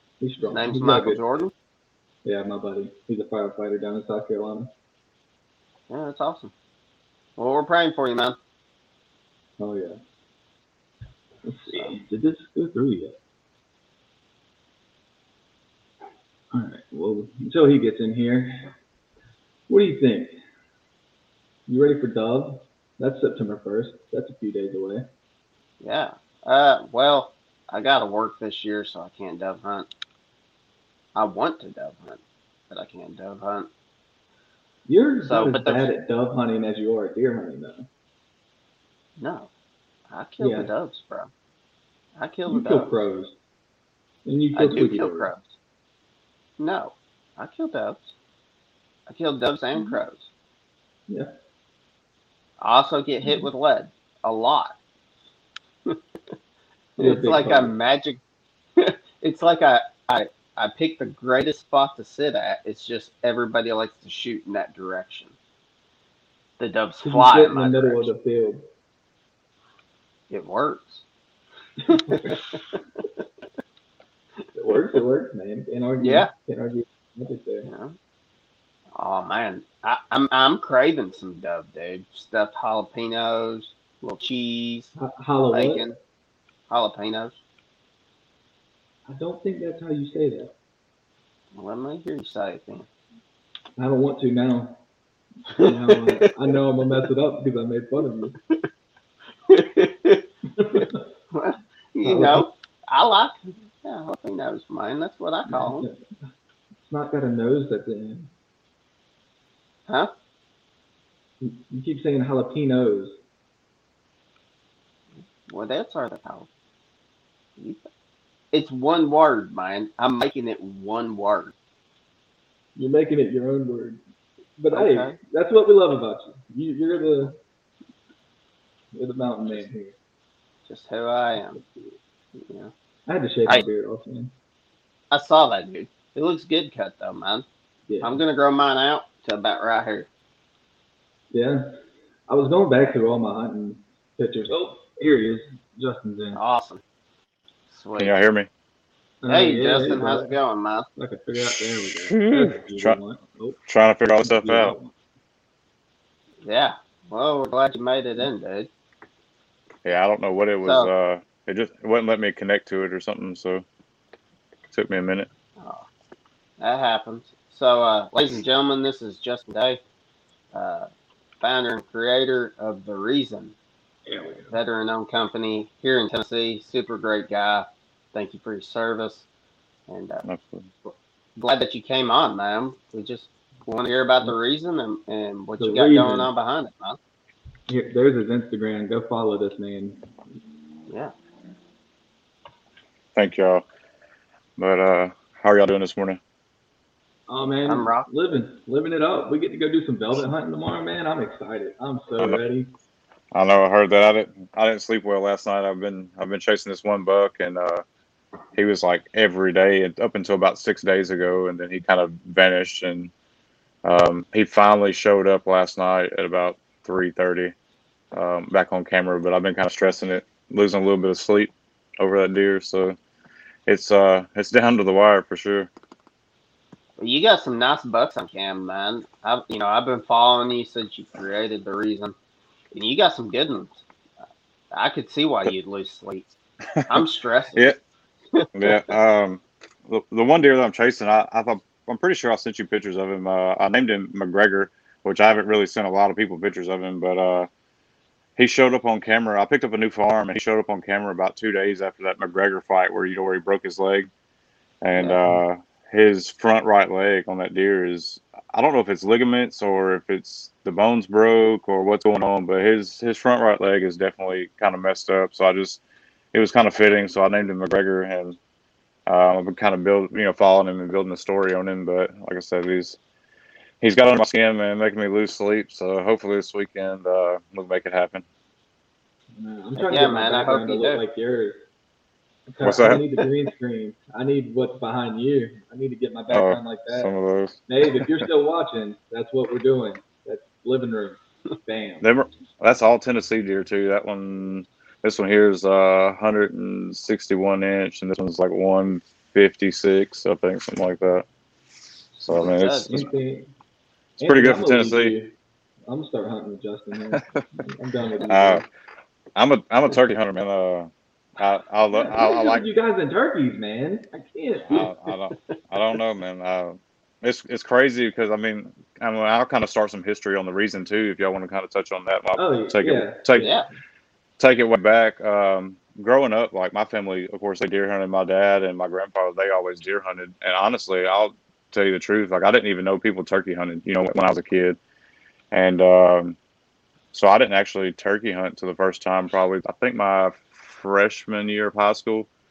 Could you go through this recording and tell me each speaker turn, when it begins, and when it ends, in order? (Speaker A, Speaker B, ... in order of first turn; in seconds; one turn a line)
Speaker A: 0.2-1.2
Speaker B: 0.5-1.5
Speaker A: 2.2-4.7
Speaker B: 5.9-6.5
Speaker B: 7.4-8.4
Speaker A: 9.6-10.0
Speaker A: 11.4-13.2
Speaker A: 16.5-18.7
Speaker A: 19.7-20.4
Speaker A: 21.7-25.1
Speaker B: 25.8-29.9
Speaker B: 31.1-33.7
Speaker A: 34.9-37.9
Speaker B: 35.2-35.9
Speaker B: 39.2-39.5
Speaker B: 40.1-41.3
Speaker A: 40.4-40.7
Speaker B: 42.2-42.9
Speaker A: 42.5-43.4
Speaker A: 44.2-45.3
Speaker B: 44.5-45.5
Speaker B: 46.6-48.1
Speaker B: 49.1-50.3
Speaker B: 52.6-54.8
Speaker A: 57.0-57.7
Speaker B: 57.0-58.2
Speaker B: 58.8-65.3
Speaker B: 66.6-68.1
Speaker A: 67.0-68.7
Speaker B: 70.3-71.0
Speaker A: 71.9-72.3
Speaker B: 71.9-72.8
Speaker A: 74.5-77.7
Speaker B: 76.0-76.3
Speaker B: 77.7-78.0
Speaker B: 79.0-84.9
Speaker A: 85.0-85.9
Speaker B: 85.5-85.9
Speaker B: 86.7-87.4
Speaker A: 89.1-90.5
Speaker B: 91.5-92.9
Speaker A: 93.8-94.8
Speaker B: 95.5-96.5
Speaker A: 95.6-98.4
Speaker B: 99.5-105.9
Speaker A: 100.5-101.0
Speaker A: 102.0-102.5
Speaker A: 105.5-106.0
Speaker A: 106.8-108.3
Speaker B: 109.9-110.1
Speaker A: 111.4-113.2
Speaker B: 115.5-116.5
Speaker B: 117.6-117.9
Speaker B: 118.5-121.5
Speaker A: 122.8-124.0
Speaker A: 124.6-127.4
Speaker B: 124.7-125.2
Speaker A: 128.9-129.9
Speaker B: 130.7-131.6
Speaker A: 131.5-131.9
Speaker B: 132.3-132.7
Speaker A: 133.1-134.3
Speaker B: 135.1-137.5
Speaker A: 137.9-138.2
Speaker B: 138.0-140.1
Speaker A: 141.3-146.4
Speaker B: 146.3-146.8
Speaker B: 147.7-148.1
Speaker C: 148.0-148.5
Speaker A: 149.2-150.3
Speaker B: 149.3-150.9
Speaker A: 151.0-153.6
Speaker C: 152.1-153.0
Speaker C: 153.7-154.8
Speaker A: 154.2-154.9
Speaker B: 156.4-158.7
Speaker C: 159.8-163.7
Speaker B: 160.6-160.9
Speaker C: 164.7-165.3
Speaker B: 165.6-165.9
Speaker B: 166.6-169.8
Speaker B: 170.5-170.9
Speaker B: 171.4-173.6
Speaker A: 174.1-174.6
Speaker B: 174.5-179.3
Speaker B: 179.9-180.2
Speaker C: 180.2-180.7
Speaker B: 180.8-187.0
Speaker A: 185.6-186.3
Speaker A: 187.7-190.1
Speaker B: 190.9-191.1
Speaker C: 193.2-193.6
Speaker C: 194.6-196.2
Speaker A: 197.3-202.7
Speaker B: 197.7-198.4
Speaker C: 203.3-207.8
Speaker C: 208.6-213.1
Speaker C: 213.8-217.5
Speaker C: 218.1-223.0
Speaker C: 223.7-225.7
Speaker B: 227.0-232.2
Speaker B: 232.7-233.8
Speaker B: 234.7-236.3
Speaker C: 236.8-237.0
Speaker B: 236.9-237.7
Speaker B: 238.3-238.9
Speaker C: 238.5-247.5
Speaker C: 248.4-254.1
Speaker C: 254.8-265.8
Speaker B: 255.0-255.4
Speaker C: 266.3-268.4
Speaker C: 269.1-273.0
Speaker C: 273.8-278.2
Speaker A: 279.4-281.6
Speaker B: 279.8-281.0
Speaker A: 282.5-287.1
Speaker C: 282.6-283.0
Speaker C: 286.3-288.2
Speaker A: 287.7-292.1
Speaker C: 292.0-301.2
Speaker C: 302.2-303.1
Speaker B: 302.3-303.1
Speaker A: 302.9-303.5
Speaker C: 304.2-305.1
Speaker A: 304.2-305.4
Speaker A: 305.9-308.6
Speaker C: 307.1-307.4
Speaker C: 308.3-308.6
Speaker C: 309.4-312.6
Speaker A: 312.0-314.9
Speaker C: 314.7-323.5
Speaker A: 322.4-323.6
Speaker B: 323.4-323.7
Speaker C: 324.4-334.8
Speaker C: 335.5-336.4
Speaker C: 337.1-342.3